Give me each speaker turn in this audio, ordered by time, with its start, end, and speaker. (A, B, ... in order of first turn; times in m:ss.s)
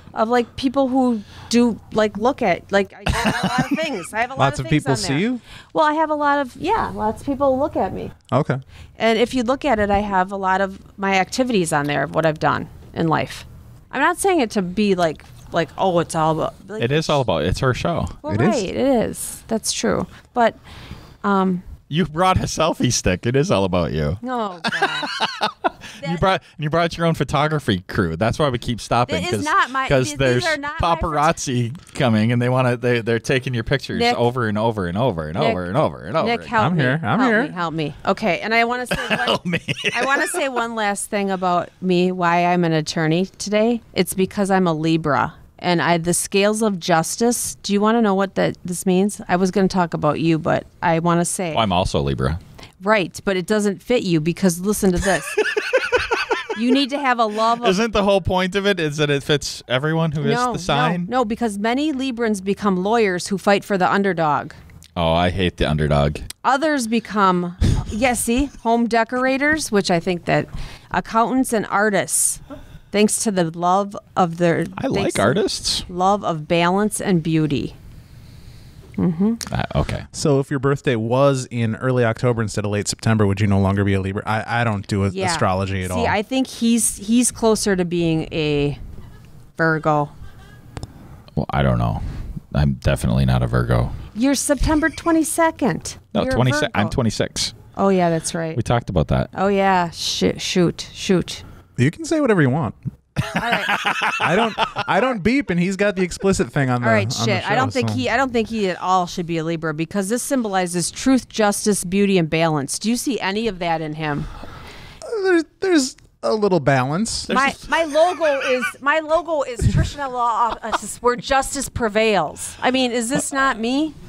0:00.1-0:08.1 A
0:04.4-0:05.4 B
0:08.3-0:08.6 B
0:09.0-0:17.2 A
0:16.8-0:18.2 C
0:18.2-0:20.6 A
0:18.3-0:18.6 B
0:21.2-0:21.7 A
0:21.9-0:36.6 C
0:24.2-0:25.1 A
0:29.1-0:31.3 A
0:33.9-0:34.2 A
0:35.4-0:35.6 A
0:36.2-0:39.4 A
0:36.6-0:37.6 B
0:38.9-0:40.5 C
0:39.9-0:51.6 A
0:51.5-0:52.4 C
0:52.8-0:55.4 A
0:55.5-0:56.5 C
0:56.5-0:57.8 A
0:57.6-1:01.1 C
1:00.2-1:04.6 A
1:05.0-1:06.2 C
1:06.4-1:12.4 A
1:12.9-1:17.8 A
1:14.8-1:15.9 C
1:19.0-1:19.4 A
1:19.5-1:20.1 C
1:20.1-1:26.2 B
1:25.1-1:28.8 A
1:29.6-1:30.1 A
1:31.4-1:33.9 C
1:34.1-1:37.0 A
1:36.1-1:37.5 C
1:37.7-1:38.6 A
1:38.6-1:39.3 C
1:39.3-1:41.4 A
1:41.8-1:42.8 B
1:43.2-1:44.9 C
1:43.3-1:43.8 A
1:44.2-1:48.0 B
1:46.8-1:54.3 A
1:55.0-1:57.3 B
1:57.3-1:57.6 C
1:57.3-2:04.0 A